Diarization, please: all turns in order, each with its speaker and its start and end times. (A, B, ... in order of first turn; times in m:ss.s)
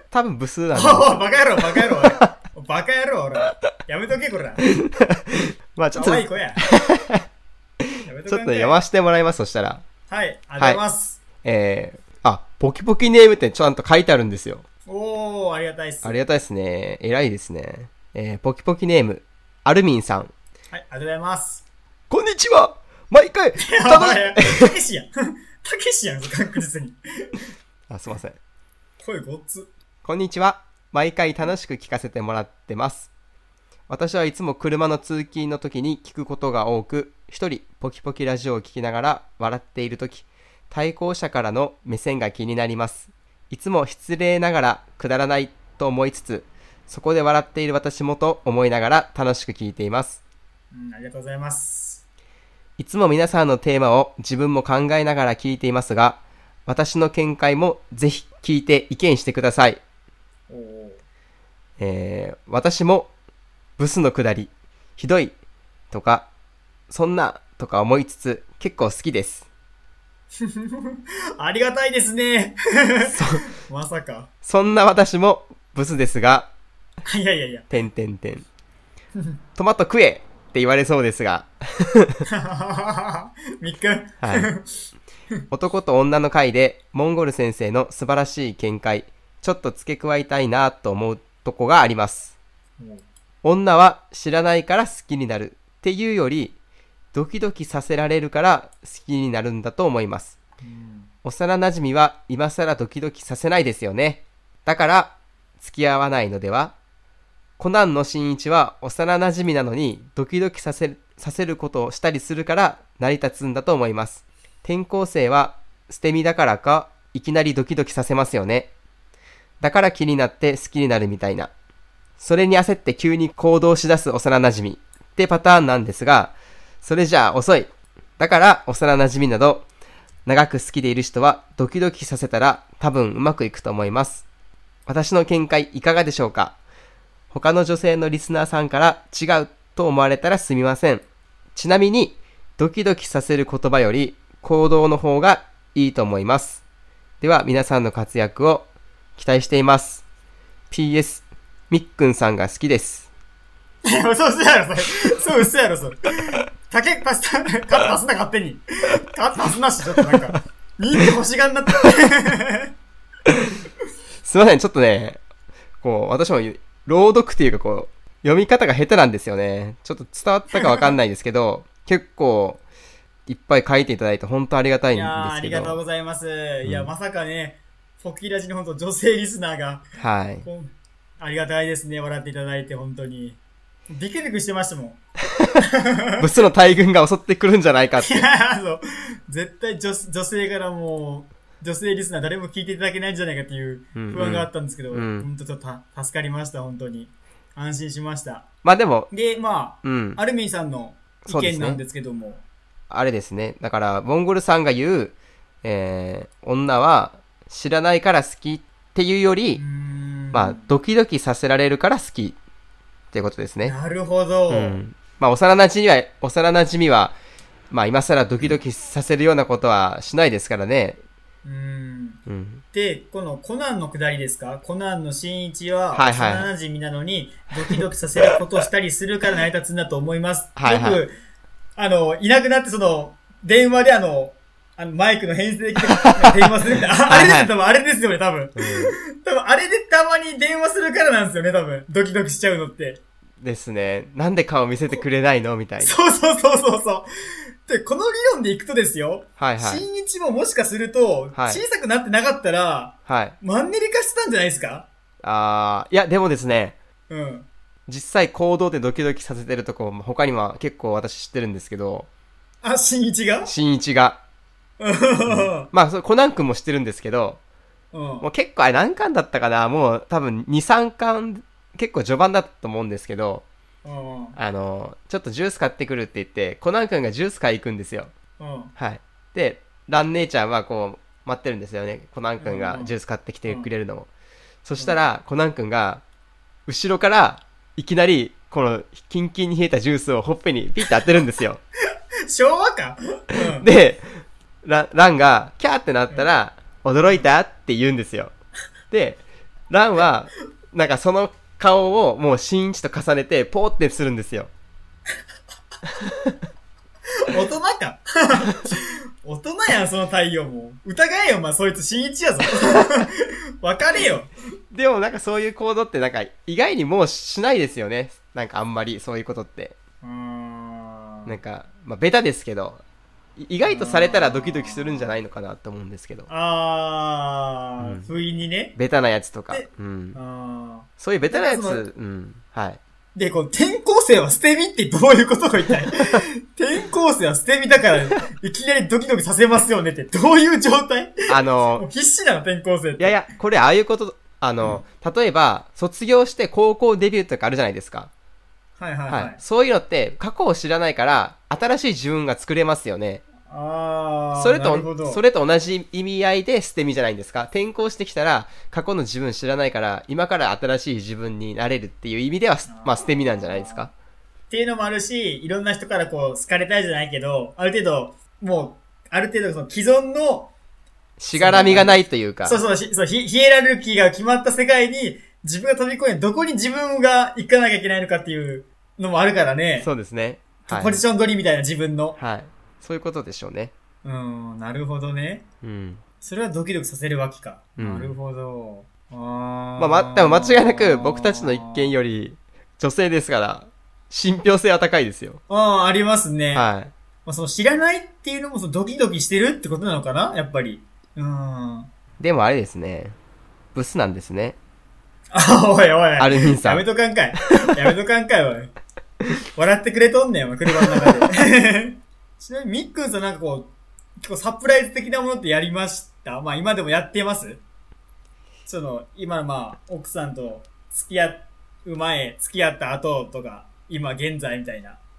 0:00.1-0:01.2 A
0:00.7-0:04.7 B
0:04.8-0:07.2 A
0:05.9-0:06.6 B
0:08.0-0:08.8 B
0:08.3-0:09.8 A
0:10.1-0:11.2 B
0:11.4-0:14.6 A
0:14.9-0:16.2 B
0:16.0-0:20.3 A
0:20.7-0:21.6 B
0:22.1-0:24.7 A
0:23.6-0:27.4 B
0:27.9-0:28.4 A
0:29.0-0:29.7 B
0:30.0-0:33.1 A
0:33.9-0:50.2 A
0:50.7-0:52.0 B
0:52.8-0:59.8 A
1:00.5-1:01.0 B
1:01.8-1:03.1 A
1:03.8-1:05.4 A
1:05.9-1:06.3 A
1:06.9-1:09.4 A
1:10.4-1:14.3 B
1:13.0-1:13.5 A
1:14.4-1:16.5 A
1:17.1-1:17.7 B
1:17.7-1:18.4 A
1:19.6-1:22.2 A
1:22.3-1:24.7 B
1:24.2-1:24.5 A
1:25.5-1:32.3 A
1:32.8-1:33.0 B
1:33.4-1:36.6 A
1:37.1-1:40.4 A
1:40.6-1:41.1 B
1:41.2-1:46.8 A
1:47.6-1:58.7 A
1:59.6-2:01.5 A
2:02.2-2:09.7 A
2:10.3-2:14.2 A
2:14.9-2:16.6 A
2:17.3-2:21.0 A
2:21.6-2:26.6 A
2:27.2-2:30.0 A
2:30.7-2:33.1 A
2:33.8-2:42.7 B
2:44.2-2:45.2 A
2:45.8-2:52.6 A
2:53.3-2:55.8 A
2:54.9-2:59.9 B
2:56.6-2:56.9 A
3:00.0-3:00.5 A
3:00.4-3:03.4 B
3:03.9-3:05.0 B
3:05.6-3:06.2 B
3:06.2-3:08.3 A
3:08.0-3:18.5 B
3:14.0-3:15.3 A
3:18.6-3:19.1 A
3:19.1-3:22.4 B
3:19.8-3:20.2 A
3:21.2-3:21.8 A
3:22.9-3:29.6 A
3:29.6-3:30.7 B
3:30.3-3:32.4 A
3:33.1-3:33.8 A
3:33.6-3:34.8 B
3:34.5-3:37.2 A
3:37.7-3:41.0 A
3:41.4-3:51.2 B
3:42.3-3:42.6 A
3:45.9-3:46.5 A
3:50.6-3:51.0 A
3:51.8-4:03.0 B
3:57.1-3:57.5 A
3:58.6-3:59.0 A
4:03.4-4:06.0 A
4:05.8-4:07.1 B
4:07.6-4:14.9 B
4:09.4-4:09.8 A
4:11.3-4:11.6 A
4:13.1-4:13.4 A
4:15.2-4:16.8 A
4:17.1-4:17.5 B
4:17.9-4:22.1 A
4:22.6-4:23.5 B
4:23.4-4:24.2 A
4:24.8-4:25.7 B
4:25.3-4:27.4 A
4:27.9-4:28.3 B
4:28.2-4:33.4 A
4:33.8-4:34.4 B
4:34.4-4:38.1 A
4:38.4-4:38.7 B
4:38.8-4:44.1 A
4:42.4-4:43.7 B
4:44.6-4:46.0 A
4:46.7-4:51.6 A
4:52.3-4:53.7 B
4:53.4-4:58.3 A
4:58.9-5:04.5 A
5:07.3-5:14.3 B
5:14.7-5:19.8 A
5:20.0-5:21.4 B
5:21.3-5:22.8 A
5:23.4-5:26.3 A
5:23.6-5:25.2 B
5:26.3-5:28.8 B
5:27.8-5:28.1 A
5:28.8-5:30.2 A
5:29.5-5:31.9 B
5:31.0-5:32.8 A
5:33.2-5:43.2 B
5:41.3-5:41.9 A
5:43.0-5:48.1 A
5:48.8-5:49.4 B
5:49.1-5:53.2 A
5:53.4-5:55.2 B
5:54.4-6:03.9 A
6:02.7-6:03.9 B
6:04.5-6:10.5 B
6:11.2-6:12.6 A
6:11.3-6:19.9 B
6:19.8-6:21.0 A
6:20.6-6:22.2 B
6:22.2-6:23.7 A
6:24.0-6:25.4 B
6:25.6-6:26.0 A
6:26.2-6:31.9 B
6:27.8-6:28.1 A
6:29.8-6:35.4 A
6:35.5-6:36.7 B
6:36.5-6:36.9 A
6:37.2-6:41.9 B
6:42.2-6:43.2 A
6:43.8-6:44.6 A
6:45.3-6:48.7 B
6:46.2-6:46.8 A
6:49.6-6:57.6 B
6:58.7-7:05.0 B